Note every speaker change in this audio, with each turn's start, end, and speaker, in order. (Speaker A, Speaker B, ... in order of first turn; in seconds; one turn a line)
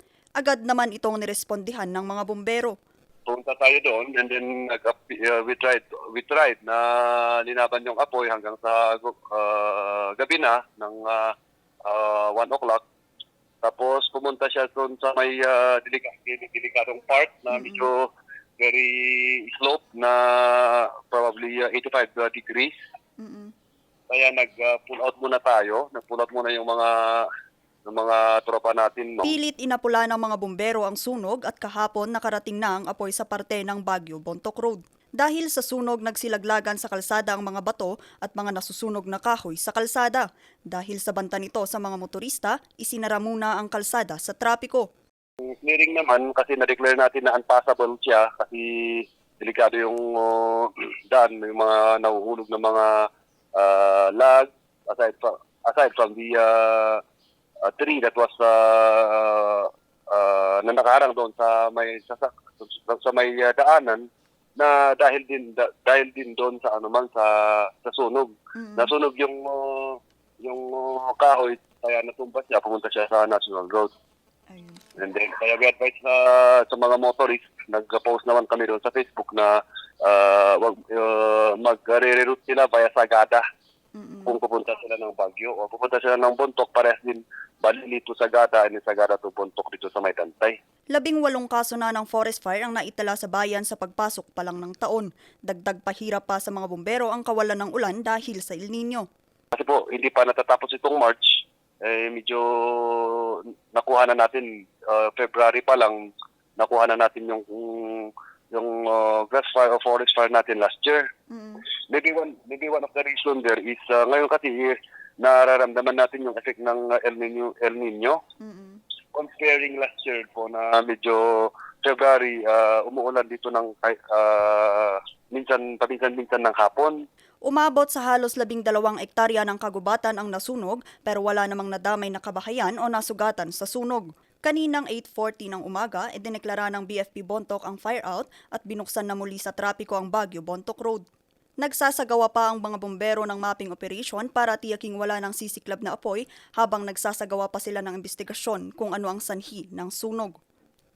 Speaker A: 0.4-2.7
Speaker B: 3.3-11.3
Speaker B: 11.8-12.8
Speaker B: 13.6-18.1
Speaker A: 17.5-17.9
Speaker B: 18.6-22.7
Speaker A: 23.2-23.5
Speaker B: 24.1-27.3
Speaker B: 27.9-29.3
Speaker A: 29.2-44.9
Speaker B: 45.6-57.0
Speaker B: 57.7-64.0
Speaker B: 64.6-73.9
Speaker A: 68.6-68.9
Speaker A: 74.5-74.8
Speaker B: 75.0-83.4
Speaker A: 84.0-84.4
Speaker B: 84.2-90.6
Speaker A: 90.9-99.1
Speaker B: 99.5-106.0
Speaker B: 106.6-111.1
Speaker A: 111.3-111.6
Speaker B: 111.9-118.2
Speaker A: 118.4-118.8
Speaker B: 119.1-127.0
Speaker A: 127.5-141.1
Speaker A: 141.6-150.4